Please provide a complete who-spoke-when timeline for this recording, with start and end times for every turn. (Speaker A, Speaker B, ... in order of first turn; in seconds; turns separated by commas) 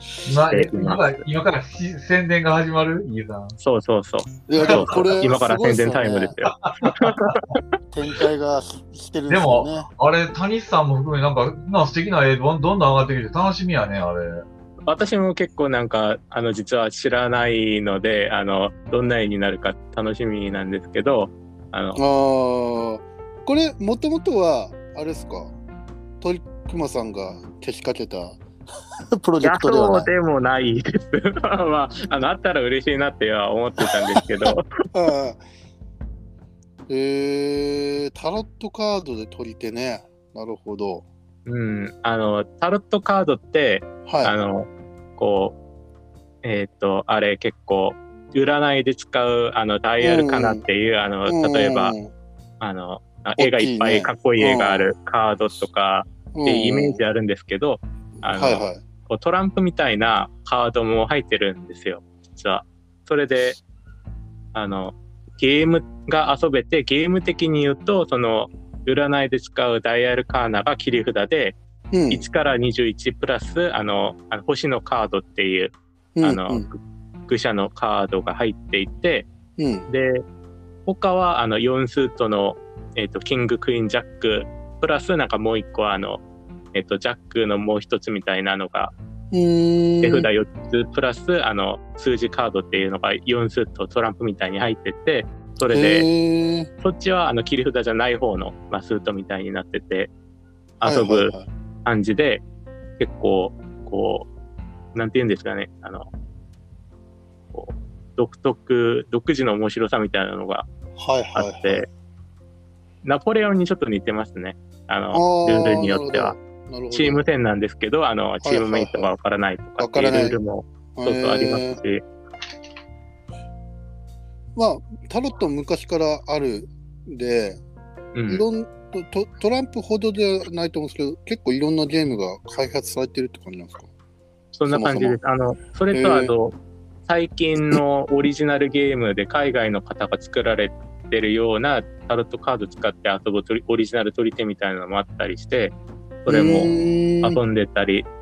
Speaker A: 0.2-3.6, Speaker B: 0.5-1.2, Speaker B: 3.6-7.6, Speaker C: 4.5-6.4, Speaker A: 4.6-5.2, Speaker A: 6.5-7.4, Speaker C: 7.9-9.9, Speaker A: 9.3-14.4, Speaker B: 14.9-22.0, Speaker C: 22.0-25.5, Speaker C: 26.2-28.4, Speaker C: 29.2-30.1, Speaker B: 29.4-34.7, Speaker C: 33.8-35.4, Speaker C: 36.9-41.1, Speaker B: 41.5-45.6, Speaker C: 44.1-44.4, Speaker B: 46.4-52.0, Speaker C: 50.0-50.6, Speaker C: 51.3-52.1, Speaker B: 52.6-63.6, Speaker C: 53.4-54.9, Speaker C: 56.3-57.0, Speaker C: 58.2-58.8, Speaker B: 64.5-71.6, Speaker C: 71.9-72.3, Speaker B: 72.1-79.3, Speaker C: 76.2-76.7, Speaker C: 79.6-79.9, Speaker B: 79.9-80.2, Speaker B: 80.9-86.2, Speaker B: 86.7-88.9, Speaker C: 89.3-90.3, Speaker B: 90.0-96.1, Speaker C: 95.7-96.7, Speaker B: 96.8-100.1, Speaker B: 100.8-101.3, Speaker C: 100.8-101.5, Speaker B: 101.8-102.4, Speaker B: 103.0-104.3, Speaker B: 104.9-106.1, Speaker B: 107.5-110.7, Speaker C: 111.0-111.9, Speaker B: 111.3-111.9, Speaker B: 113.0-116.3, Speaker C: 115.1-117.3, Speaker B: 116.9-122.0, Speaker C: 118.4-119.1, Speaker C: 119.8-120.4, Speaker C: 121.0-121.8, Speaker C: 124.6-127.6, Speaker B: 128.2-128.4, Speaker C: 128.3-133.9, Speaker B: 134.6-136.6, Speaker C: 134.7-135.2, Speaker C: 135.9-136.3, Speaker B: 137.1-148.1, Speaker C: 146.3-147.4